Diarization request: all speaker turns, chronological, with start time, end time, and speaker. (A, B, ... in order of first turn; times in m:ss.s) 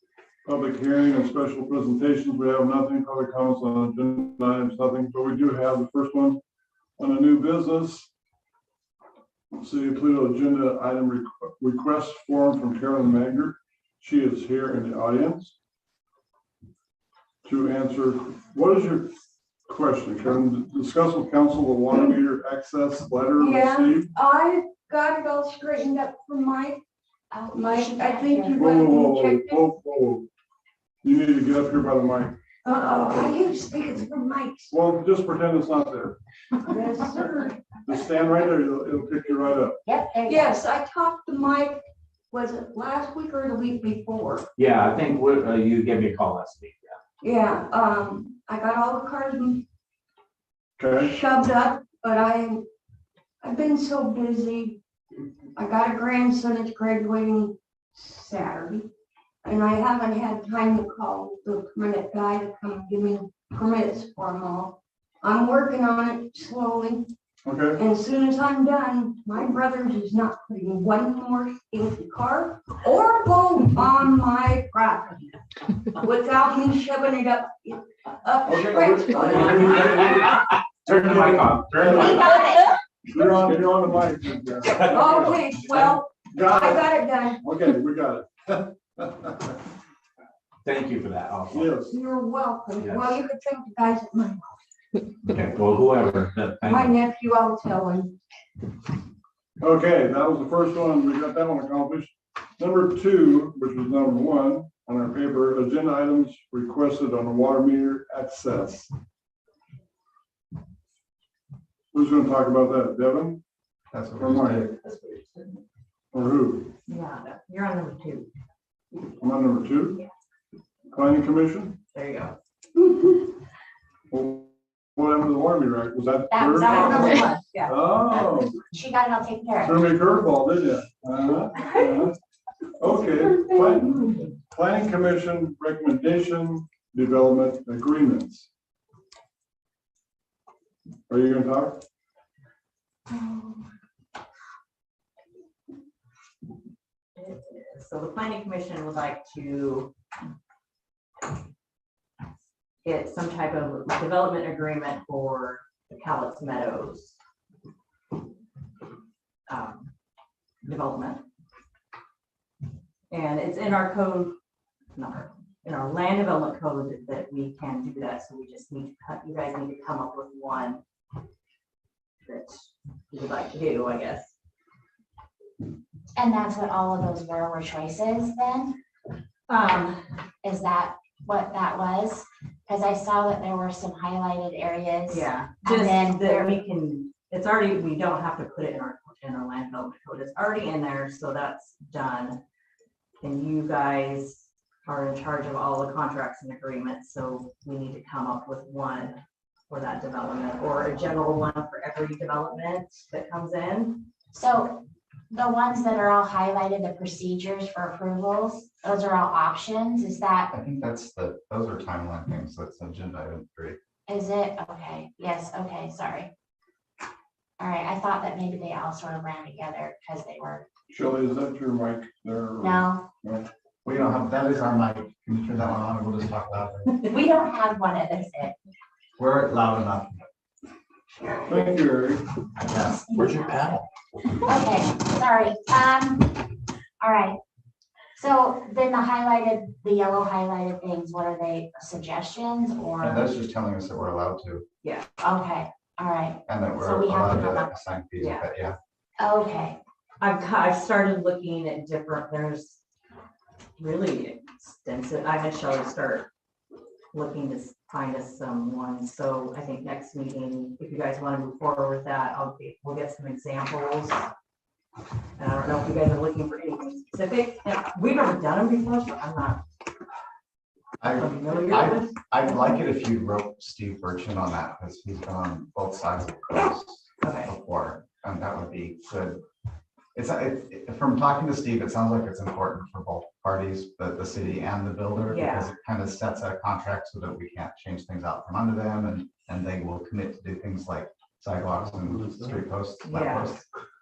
0:00.4-0:06.4 A
0:07.0-0:08.1 A
0:09.5-0:15.5 A
0:17.4-0:19.1 A
0:19.7-0:24.1 A
0:23.4-0:26.8 B
0:27.3-0:28.7 C
0:27.4-0:29.7 B
0:28.5-0:30.2 A
0:31.0-0:32.4 A
0:32.6-0:34.7 B
0:34.7-0:36.2 A
0:36.6-0:37.8 B
0:37.8-0:39.8 A
0:39.8-0:40.6 C
0:40.2-0:44.4 B
0:44.6-0:46.9 D
0:47.2-0:49.6 B
0:50.8-0:51.1 A
0:51.0-0:52.6 B
0:53.4-0:54.8 B
0:55.6-0:58.9 B
0:59.4-1:07.1 B
1:07.4-1:07.8 A
1:07.7-1:15.3 B
1:16.0-1:20.2 B
1:18.4-1:20.2 A
1:20.9-1:22.2 D
1:20.9-1:22.2 A
1:21.8-1:22.7 C
1:23.1-1:29.5 A
1:24.8-1:27.4 B
1:30.6-1:31.7 D
1:31.5-1:31.9 A
1:31.8-1:34.5 B
1:32.8-1:33.0 D
1:35.3-1:36.8 D
1:36.6-1:38.1 B
1:39.6-1:48.9 A
1:51.9-1:53.4 A
1:53.9-1:54.7 E
1:54.2-1:54.6 A
1:56.1-1:56.7 A
1:56.9-1:58.3 F
1:59.2-2:00.0 A
2:00.9-2:01.8 A
2:01.9-2:02.3 F
2:04.1-2:06.9 A
2:06.3-2:07.3 C
2:06.6-2:07.7 F
2:06.9-2:07.6 B
2:07.6-2:08.6 A
2:08.1-2:09.8 C
2:09.6-2:12.1 A
2:12.8-2:18.5 A
2:21.1-2:21.8 A
2:27.2-2:29.9 F
2:32.8-2:37.2 F
2:39.5-2:39.9 F
2:40.6-2:41.2 F
2:43.1-2:44.3 F
2:44.9-2:50.8 F
2:52.2-2:54.3 F
2:56.1-2:58.8 C
2:59.5-3:00.0 F
3:00.4-3:06.6 C
3:05.1-3:12.4 F
3:13.2-3:19.2 F
3:19.7-3:24.0 F
3:24.3-3:30.5 C
3:30.5-3:33.8 E
3:34.1-3:36.3 C
3:37.6-3:40.6 C
3:40.9-3:43.5 A
3:42.6-3:43.0 C
3:43.8-3:47.0 E
3:47.1-3:48.5 C
3:49.2-3:50.2 E
3:51.4-3:52.2 A
3:52.6-3:53.0 E
3:52.8-3:53.8 C
3:54.4-3:57.4 C
3:58.2-4:03.3 C
4:03.0-4:04.6 E
4:05.2-4:07.7 C
4:06.5-4:08.8 E
4:08.2-4:08.5 F
4:09.2-4:09.8 C
4:10.2-4:12.8 F
4:13.8-4:16.3 F
4:17.1-4:24.3 F
4:25.4-4:29.6 F
4:31.0-4:39.4 E
4:31.1-4:32.2 F
4:37.2-4:37.5 F
4:40.1-4:53.6 E
4:45.3-4:45.7 F
4:53.0-4:53.5 F